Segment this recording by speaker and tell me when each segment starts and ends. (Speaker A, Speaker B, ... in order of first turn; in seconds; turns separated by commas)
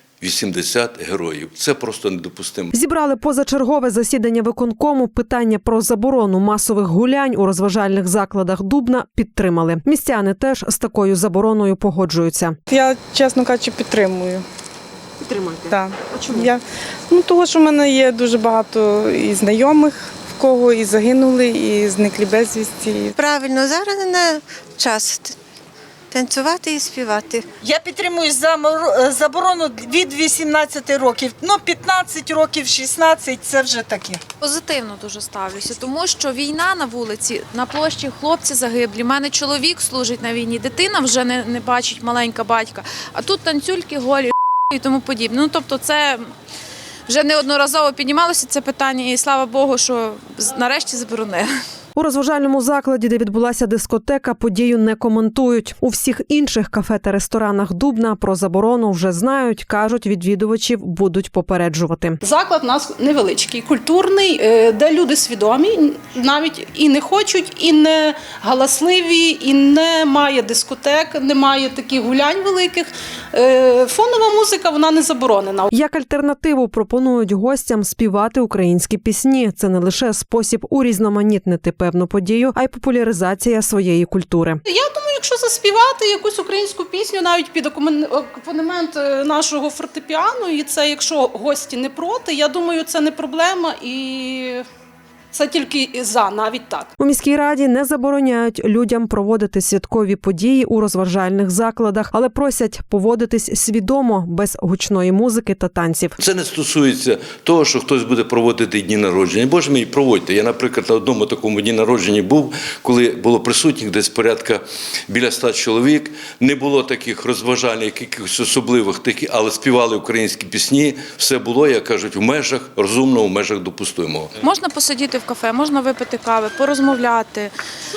Speaker A: 0.2-2.7, Speaker B: 2.7-12.6, Speaker C: 12.7-14.4, Speaker C: 15.7-23.1, Speaker D: 23.2-25.4, Speaker D: 26.1-27.6, Speaker E: 27.7-31.3, Speaker C: 29.6-32.1, Speaker E: 31.8-32.8, Speaker C: 32.8-34.2, Speaker F: 34.4-46.2, Speaker F: 47.1-51.5, Speaker B: 52.0-62.2, Speaker G: 62.2-75.7, Speaker B: 75.7-84.6, Speaker G: 84.7-94.6, Speaker G: 95.3-96.9, Speaker B: 97.0-106.2, Speaker A: 106.2-124.3, Speaker F: 124.4-127.5